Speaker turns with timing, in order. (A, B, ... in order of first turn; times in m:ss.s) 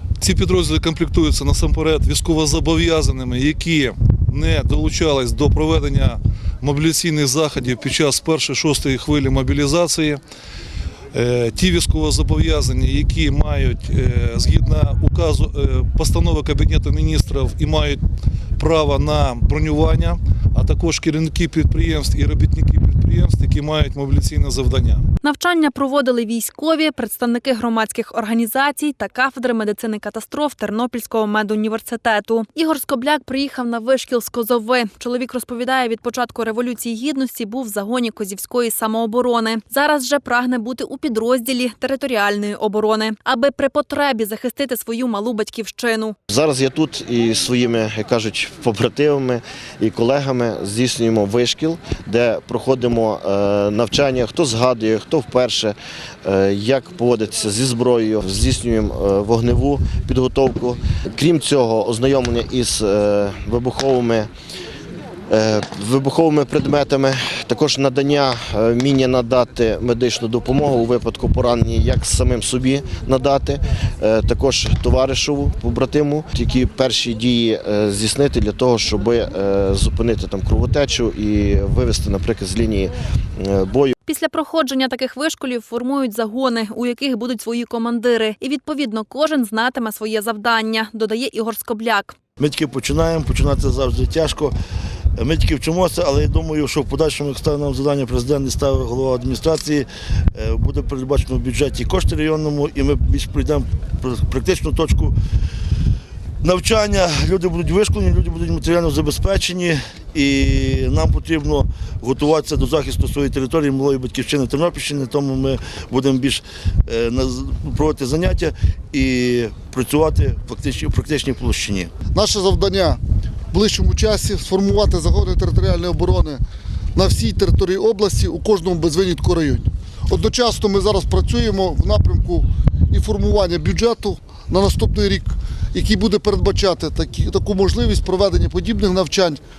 0:00.2-0:10.2 A
0:11.1-0:18.0 A
0:18.6-0:25.0 A
0:25.2-0:46.2 B
0:46.3-1:04.3 C
1:05.3-1:23.9 C
1:24.1-1:32.2 B
1:32.4-1:34.5 D
1:35.2-1:45.2 D
1:46.4-2:01.9 D
2:02.1-2:03.0 E
2:03.5-2:06.4 E
2:07.0-2:19.4 E